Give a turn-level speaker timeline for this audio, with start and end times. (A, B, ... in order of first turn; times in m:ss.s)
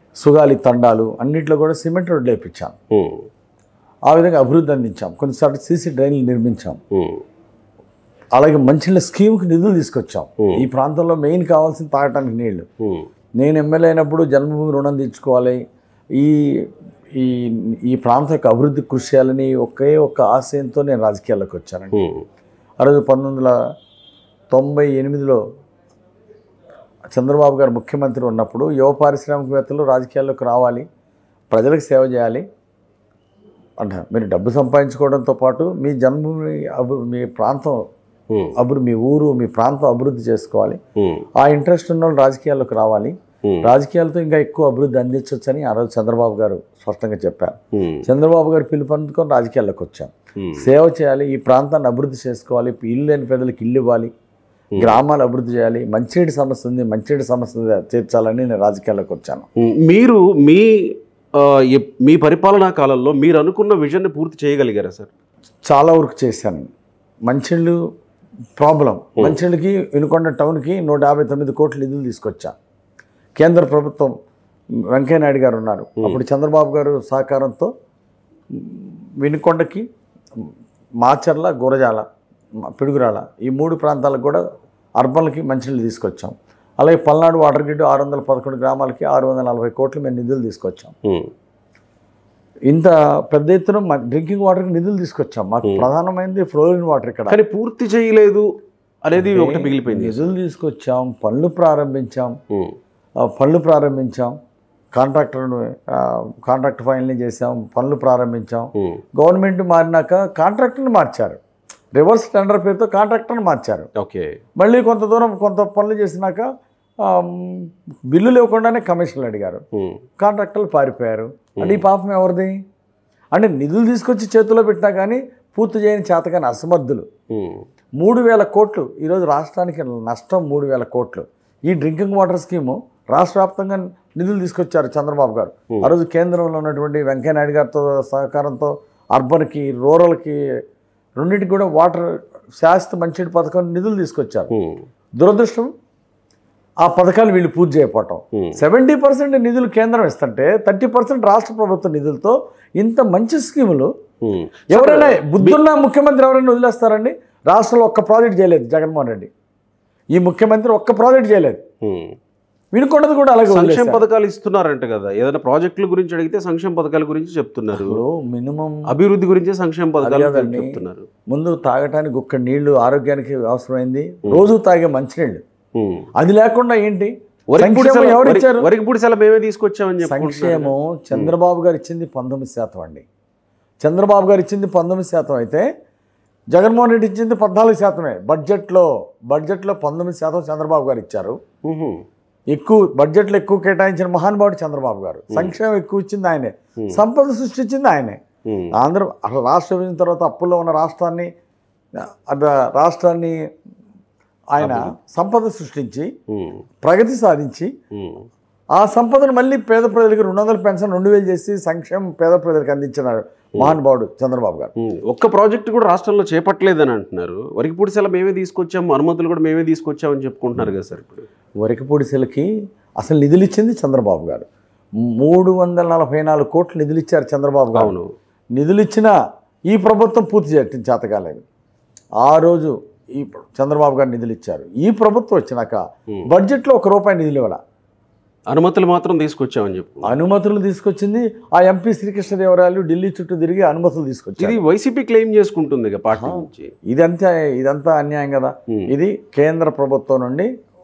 0:00.2-0:02.8 A
0:02.9-0:03.2 B
0:04.1-0:06.8 A
0:06.9-0:07.2 B
0:08.3-0:12.6 A
0:12.8-0:13.1 B
0:13.4-0:15.6 A
0:16.2-0:16.5 A
0:17.1-0:22.0 A
0:21.9-0:22.2 B
0:22.8-0:23.5 A
0:24.5-0:25.4 A
0:27.1-0:30.8 A
0:31.5-0:32.4 A
0:33.8-0:37.8 A
0:38.3-0:38.6 B
0:38.6-0:40.8 A
0:41.0-0:41.2 B
0:41.4-0:54.1 A
0:43.4-0:43.7 B
0:47.7-0:48.0 B
0:50.4-0:50.7 B
0:54.8-0:59.4 A
0:59.6-1:05.1 B
1:05.7-1:06.7 A
1:07.2-1:07.8 A
1:08.6-1:12.5 A
1:13.4-1:14.1 A
1:14.9-1:17.7 A
1:18.5-1:19.8 A
1:21.0-1:22.0 A
1:22.6-1:24.4 A
1:25.0-1:30.9 A
1:31.0-1:31.3 B
1:32.7-1:37.4 A
1:37.3-1:38.4 B
1:39.0-1:40.2 B
1:39.2-1:42.3 A
1:43.2-1:44.3 A
1:44.9-1:51.4 A
1:48.8-1:49.0 B
1:51.9-1:53.9 A
1:54.0-1:54.3 B
1:54.6-1:56.4 A
1:57.0-1:59.6 A
1:59.7-2:00.0 B
2:00.2-2:02.6 A
2:01.6-2:01.8 B
2:03.3-2:07.1 A
2:07.3-2:07.6 B
2:08.0-2:20.4 A
2:21.2-2:24.5 A
2:24.5-2:24.8 B
2:25.2-2:25.7 A
2:26.8-2:33.9 A
2:28.3-2:28.6 B
2:34.2-2:35.6 B
2:34.7-2:39.3 A
2:40.1-2:41.6 A
2:41.8-2:42.1 B
2:42.7-2:44.0 A
2:43.5-2:48.0 B
2:47.7-2:48.9 A
2:48.9-2:51.1 B
2:50.0-2:55.4 A
2:55.7-2:56.1 B
2:56.2-2:58.7 A
2:57.5-3:01.3 B
3:00.0-3:03.0 A
3:03.8-3:05.6 A
3:06.5-3:11.4 A
3:11.6-3:12.0 B
3:12.5-3:18.2 A
3:15.3-3:15.6 B
3:18.4-3:18.7 B
3:18.8-3:21.3 A
3:22.0-3:23.4 A
3:24.5-3:26.1 A
3:24.6-3:24.9 B
3:26.3-3:26.6 B
3:26.8-3:27.7 A
3:27.9-3:28.3 B
3:28.7-3:34.7 A
3:34.8-3:41.3 B
3:41.6-3:44.5 A
3:45.0-3:47.9 A
3:47.7-3:48.1 B
3:48.5-3:49.1 A
3:49.7-3:51.4 A
3:52.2-3:57.6 A
3:58.5-4:00.2 B
4:00.0-4:04.6 A
4:04.4-4:06.7 B
4:06.2-4:10.5 A